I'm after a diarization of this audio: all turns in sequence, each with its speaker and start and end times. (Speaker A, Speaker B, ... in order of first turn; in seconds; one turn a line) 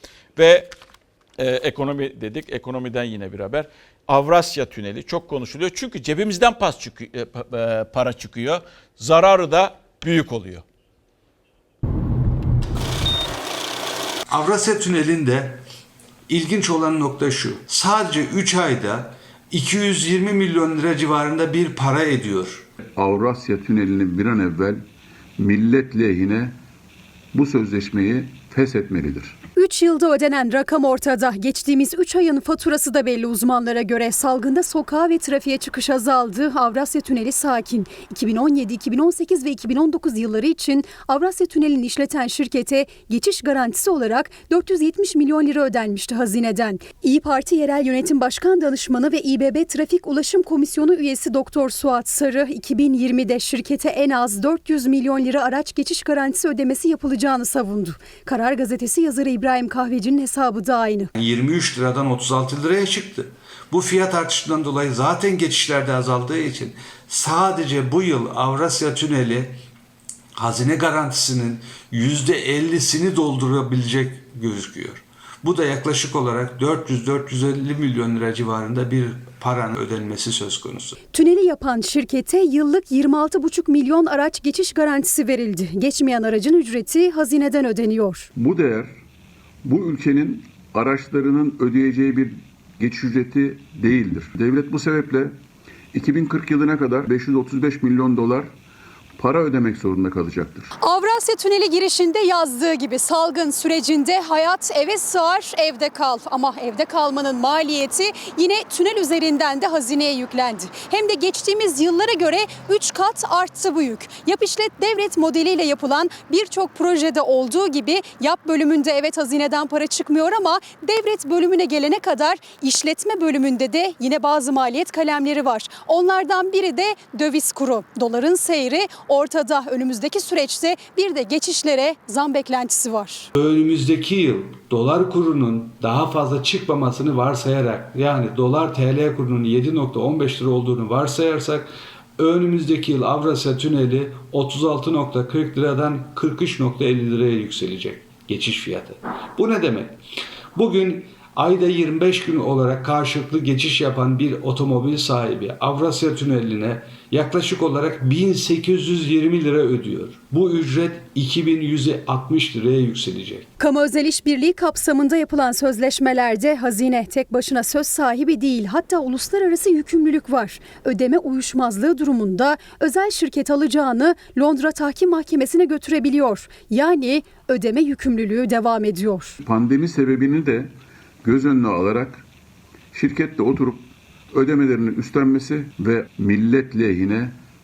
Speaker A: 0.3-0.7
Speaker A: 1.4-10.6
Speaker B: 14.3-15.6
Speaker B: 16.3-22.6
Speaker C: 22.9-24.8
Speaker C: 25.4-26.6
Speaker C: 27.3-29.4
Speaker D: 29.6-61.1
Speaker B: 61.1-69.5
Speaker B: 70.3-81.0
Speaker D: 81.1-88.3
Speaker C: 88.3-89.0
Speaker C: 89.6-95.3
Speaker C: 95.9-98.5
Speaker C: 99.2-100.7
Speaker D: 100.8-133.3
Speaker B: 133.3-150.0
Speaker B: 150.5-163.4
Speaker D: 163.6-179.4
Speaker C: 179.4-180.7
Speaker C: 181.2-182.2
Speaker C: 182.9-187.4